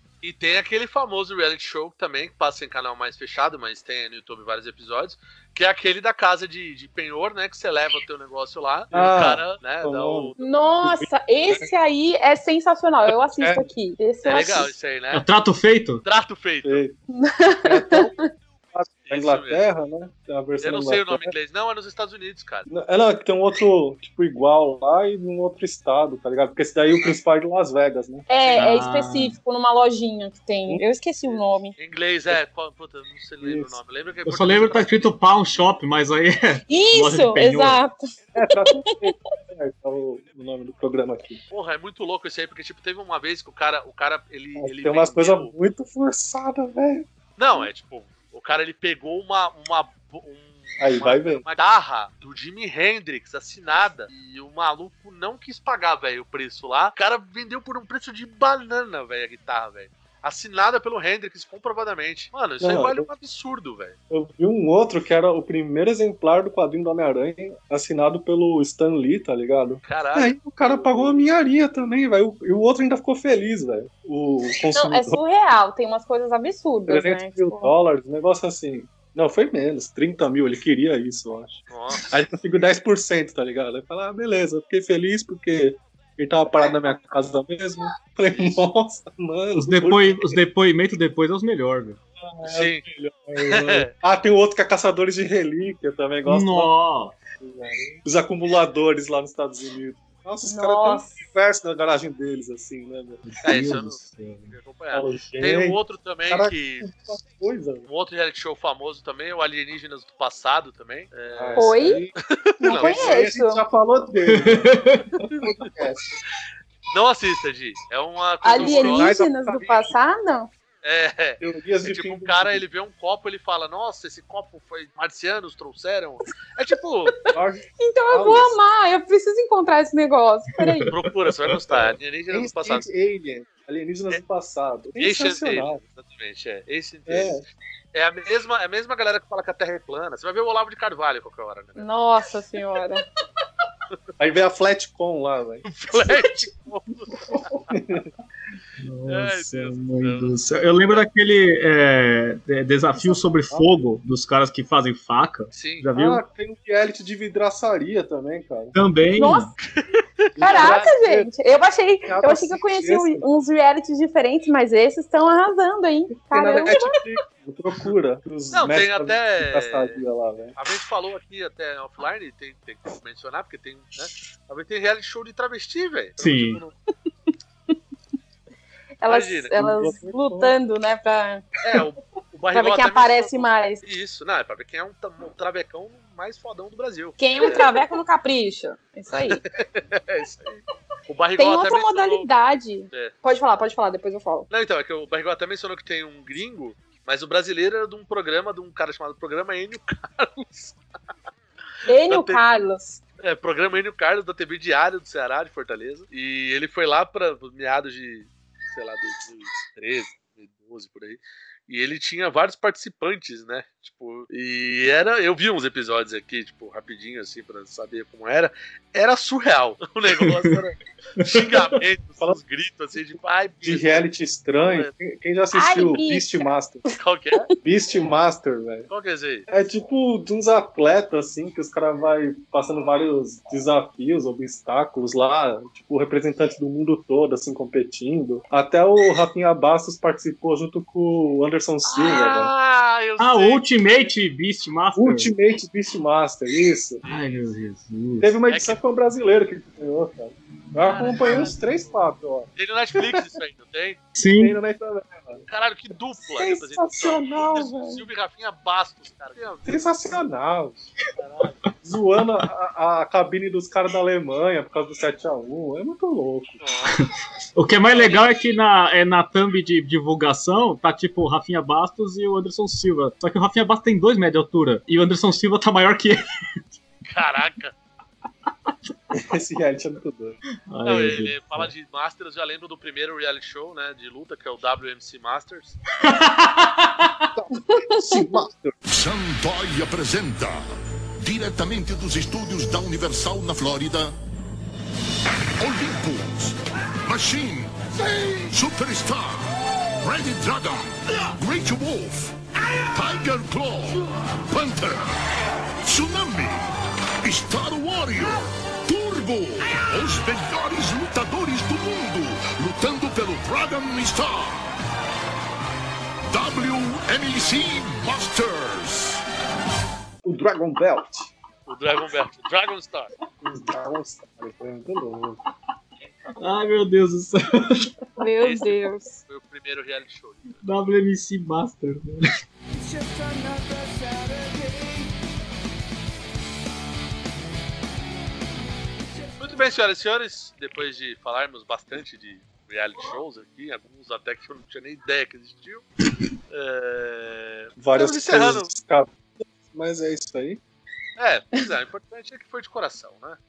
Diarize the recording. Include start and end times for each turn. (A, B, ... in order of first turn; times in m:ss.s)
0:00.2-0:10.4 A
0:08.9-0:11.7 B
0:10.4-0:14.7 C
0:13.4-0:13.7 B
0:14.2-0:15.2 A
0:15.1-0:16.0 D
0:16.0-0:16.8 A
0:16.6-0:17.0 B
0:17.1-0:18.2 C
0:17.6-0:18.1 B
0:18.7-0:21.3 B
0:19.1-0:19.6 A
0:20.6-0:22.7 A
0:22.7-0:28.3 B
0:28.3-0:31.7 C
0:28.4-0:28.7 A
0:28.5-0:29.4 D
0:31.2-0:35.1 A
0:33.4-0:33.8 B
0:34.2-0:37.8 D
0:36.7-0:38.7 C
0:38.3-0:41.4 B
0:41.5-0:45.5 A
0:44.6-0:47.1 B
0:47.4-1:04.0 A
0:50.8-0:51.4 B
1:02.6-1:03.1 B
1:04.1-1:15.2 B
1:09.8-1:11.2 A
1:14.7-1:17.7 C
1:16.9-1:30.4 B
1:21.7-1:22.1 A
1:28.3-1:28.6 A
1:29.6-1:32.0 D
1:32.2-1:36.7 B
1:32.4-1:32.8 A
1:33.5-1:33.9 A
1:36.3-1:37.2 D
1:37.4-1:43.2 B
1:40.4-1:41.2 C
1:43.2-1:44.5 D
1:43.4-1:46.9 A
1:44.9-1:47.9 B
1:47.9-1:51.8 A
1:51.3-1:56.2 B
1:51.6-1:52.0 C
1:52.3-1:53.2 A
1:52.7-1:53.6 C
1:54.3-1:55.0 D
1:55.4-1:55.7 A
1:56.9-1:59.2 A
1:58.4-2:00.5 C
1:58.6-1:59.9 B
2:00.8-2:07.1 A
2:01.4-2:02.6 B
2:07.3-2:08.6 B
2:07.8-2:10.9 C
2:10.6-2:11.0 D
2:10.9-2:12.9 A
2:11.9-2:15.8 B
2:15.0-2:17.4 A
2:17.1-2:17.4 B
2:17.9-2:21.9 A
2:21.8-2:23.0 C
2:24.2-2:25.6 B
2:25.6-2:27.6 A
2:27.7-2:28.1 B
2:28.8-2:36.2 D
2:29.1-2:30.4 A
2:35.5-2:35.9 A
2:35.9-2:38.7 B
2:38.7-2:39.5 D
2:39.2-2:39.5 C
2:39.6-2:40.9 A
2:40.4-2:41.3 B
2:40.4-2:47.0 C
2:42.0-2:43.2 B
2:46.3-2:50.5 B
2:48.5-2:50.0 A
2:50.6-2:56.7 A
2:56.2-2:56.6 D
2:59.0-3:01.4 C
2:59.0-2:59.5 A
2:59.5-3:00.6 B
3:01.6-3:07.8 A
3:02.5-3:03.8 C
3:07.2-3:09.4 C
3:09.3-3:12.3 A
3:11.4-3:14.5 C
3:14.5-3:20.8 A
3:21.8-3:22.4 A
3:21.9-3:23.0 C
3:23.2-3:44.1 A
3:40.2-3:40.6 D
3:41.2-3:41.6 D
3:43.6-3:46.8 B
3:44.6-3:44.9 A
3:45.5-3:46.5 C
3:46.9-3:47.5 A
3:47.6-3:48.9 B
3:48.9-3:49.4 A
3:49.5-4:02.5 B
4:01.9-4:04.1 A
4:03.2-4:05.3 D
4:05.0-4:07.0 B
4:07.0-4:07.4 A
4:07.1-4:08.3 D
4:08.2-4:13.3 B
4:08.5-4:08.8 A
4:10.8-4:12.0 A
4:12.6-4:14.0 A
4:14.2-4:14.6 D
4:14.4-4:15.4 B
4:15.5-4:19.8 A
4:16.4-4:17.7 B
4:16.4-4:18.0 C
4:19.7-4:20.9 B
4:21.2-4:21.6 A
4:21.8-4:26.6 B
4:26.6-4:27.0 A
4:27.6-4:36.2 D
4:27.9-4:28.2 A
4:37.1-4:37.7 A
4:39.1-4:40.4 B
4:40.7-4:41.7 D
4:40.8-4:45.8 A
4:46.0-4:47.2 D
4:47.4-4:48.8 B
4:47.7-4:48.3 C
4:48.9-4:54.1 E
4:55.6-5:05.2 E
5:05.8-5:06.6 E
5:07.2-5:14.6 E
5:16.3-5:19.2 E
5:20.2-5:21.3 B
5:21.7-5:23.1 A
5:23.4-5:25.4 B
5:26.4-5:27.9 D
5:28.2-5:29.2 C
5:28.4-5:30.6 A
5:30.6-5:32.2 D
5:39.4-5:45.8 A
5:46.5-5:48.7 A
5:47.8-5:49.2 B
5:49.7-5:50.6 B
5:51.2-5:53.4 A